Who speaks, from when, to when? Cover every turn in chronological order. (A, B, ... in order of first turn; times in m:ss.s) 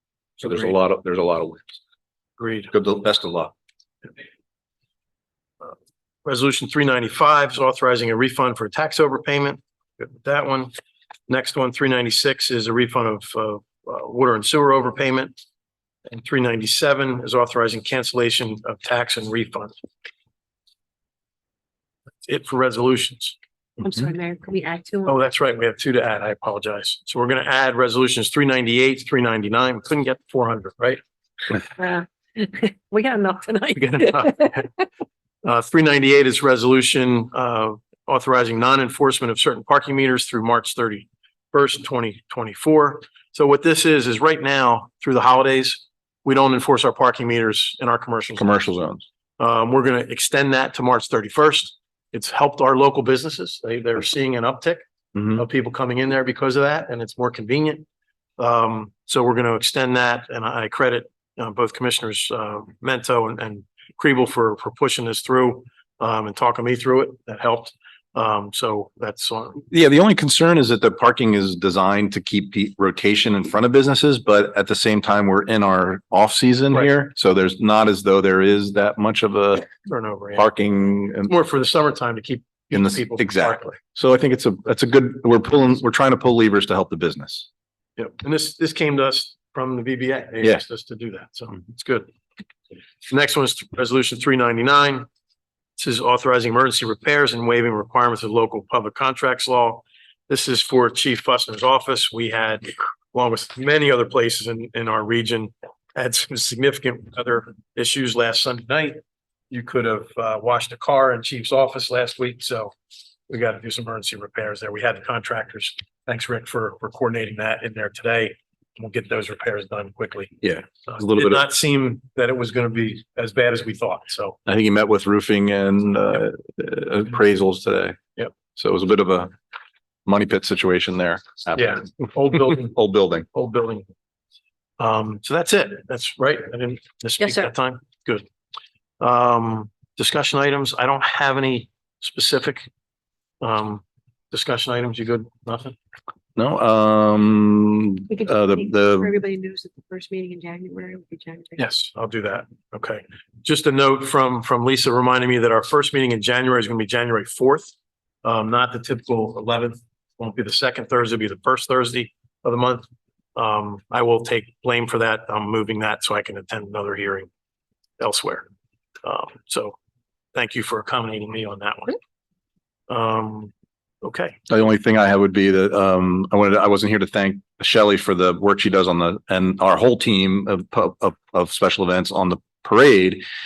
0:00.4-0:01.8 A
0:02.4-0:02.7 B
0:02.7-0:03.5 A
0:06.2-0:10.7 B
0:11.3-0:15.4 B
0:16.1-0:19.7 B
0:22.2-0:23.4 B
0:23.8-0:25.2 C
0:25.1-0:31.0 B
0:31.8-0:34.8 C
0:33.8-0:34.7 B
0:35.4-0:48.6 B
0:48.4-0:49.0 A
0:49.4-0:57.9 B
0:55.2-0:55.4 A
0:58.4-1:09.6 B
1:09.7-1:19.7 A
1:19.9-1:20.5 B
1:20.4-1:21.3 A
1:21.3-1:23.8 B
1:22.7-1:27.5 A
1:28.0-1:32.1 B
1:33.1-1:35.1 B
1:35.8-1:49.0 B
1:49.5-1:52.7 B
1:53.3-2:04.4 B
2:00.4-2:01.4 A
2:04.5-2:08.0 A
2:08.6-2:09.3 A
2:10.1-2:13.3 A
2:11.6-2:12.8 B
2:13.3-2:13.9 B
2:14.8-2:18.3 B
2:17.2-2:17.5 C
2:19.0-2:22.7 B
2:23.4-2:25.8 B
2:26.4-2:29.1 A
2:28.1-2:31.7 C
2:31.6-2:37.7 B
2:38.2-2:47.3 B
2:48.0-2:48.5 B
2:49.0-2:49.8 B
2:50.3-2:52.0 B
2:52.9-2:53.5 B
2:54.0-2:54.4 B
2:54.5-3:03.2 A